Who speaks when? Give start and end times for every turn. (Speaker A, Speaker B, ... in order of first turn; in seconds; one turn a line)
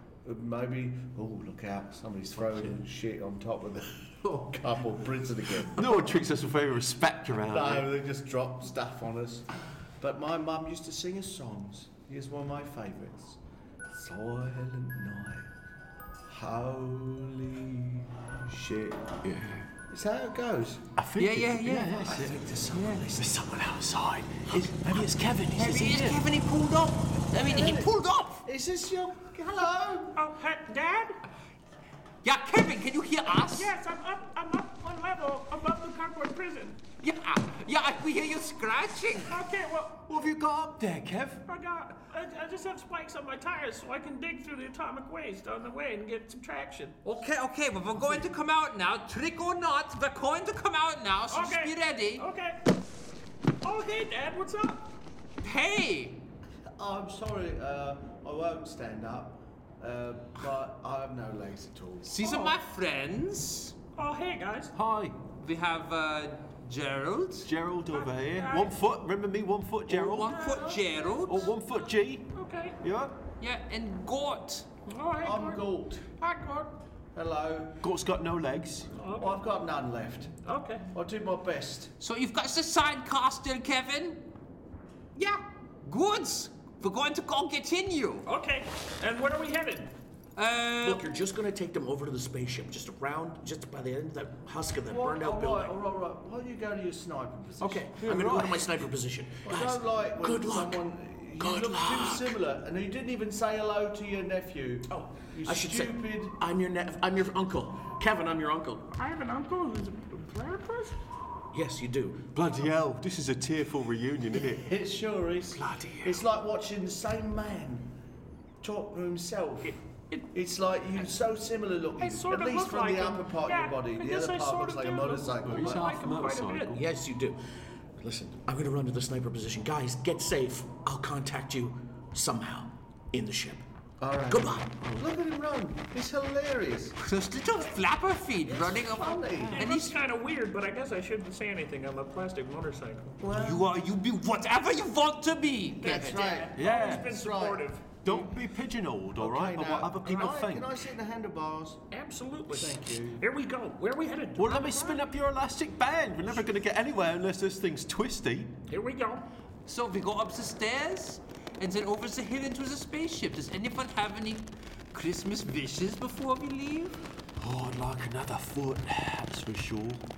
Speaker A: 0.2-5.9
Speaker B: 2.3-2.8
Speaker B: 5.7-7.9
Speaker A: 7.4-9.5
Speaker A: 10.0-13.4
Speaker A: 13.9-15.5
Speaker A: 16.3-19.1
Speaker B: 19.2-19.7
Speaker A: 19.9-20.8
Speaker B: 21.0-26.2
Speaker C: 21.2-23.0
Speaker A: 22.2-23.3
Speaker C: 25.5-28.4
Speaker A: 27.4-30.1
Speaker D: 30.1-31.2
Speaker C: 32.2-33.7
Speaker D: 33.5-36.8
Speaker C: 37.0-39.3
Speaker D: 39.2-40.1
Speaker B: 40.1-41.4
Speaker D: 41.5-47.0
Speaker C: 47.0-52.2
Speaker D: 51.3-52.6
Speaker D: 53.6-55.0
Speaker C: 55.4-56.2
Speaker A: 56.8-62.2
Speaker C: 62.0-63.7
Speaker D: 62.2-62.5
Speaker D: 64.0-64.7
Speaker B: 64.7-65.2
Speaker C: 65.4-67.5
Speaker B: 67.4-70.4
Speaker D: 67.9-68.8
Speaker C: 69.9-71.5
Speaker D: 70.2-70.9
Speaker B: 71.3-72.3
Speaker D: 72.3-72.8
Speaker B: 72.8-73.2
Speaker C: 73.4-74.7
Speaker D: 74.9-75.6
Speaker A: 75.2-76.1
Speaker C: 76.2-76.7
Speaker A: 77.1-77.8
Speaker B: 77.8-78.9
Speaker D: 78.9-79.4
Speaker A: 79.2-80.4
Speaker D: 80.4-80.9
Speaker A: 80.9-81.9
Speaker C: 82.0-84.3
Speaker C: 85.1-88.3
Speaker D: 88.2-89.9
Speaker C: 90.3-91.0
Speaker E: 90.8-95.7
Speaker A: 94.9-98.0
Speaker E: 97.6-100.8
Speaker B: 97.7-98.7
Speaker A: 99.4-106.3
Speaker E: 101.4-102.4
Speaker E: 104.9-108.9
Speaker D: 108.9-111.0
Speaker E: 111.5-112.3
Speaker B: 112.3-114.7
Speaker A: 114.6-118.0
Speaker B: 115.5-116.2
Speaker A: 118.6-119.8
Speaker D: 119.6-120.3
Speaker A: 120.3-125.9
Speaker D: 122.0-126.7
Speaker B: 125.4-126.8
Speaker E: 126.7-127.4
Speaker E: 128.0-133.6
Speaker A: 134.0-137.0
Speaker E: 134.3-134.7
Speaker B: 134.8-135.1
Speaker C: 137.0-140.0
Speaker A: 138.5-139.6
Speaker D: 139.5-143.2
Speaker A: 143.2-143.7
Speaker C: 143.3-146.4
Speaker D: 145.8-148.2
Speaker A: 145.8-147.7
Speaker B: 146.5-147.1
Speaker B: 148.0-150.8
Speaker A: 149.2-151.8
Speaker D: 151.9-155.1
Speaker A: 152.5-153.2
Speaker B: 154.3-158.6
Speaker D: 158.7-159.3
Speaker C: 159.7-167.0
Speaker B: 167.4-170.0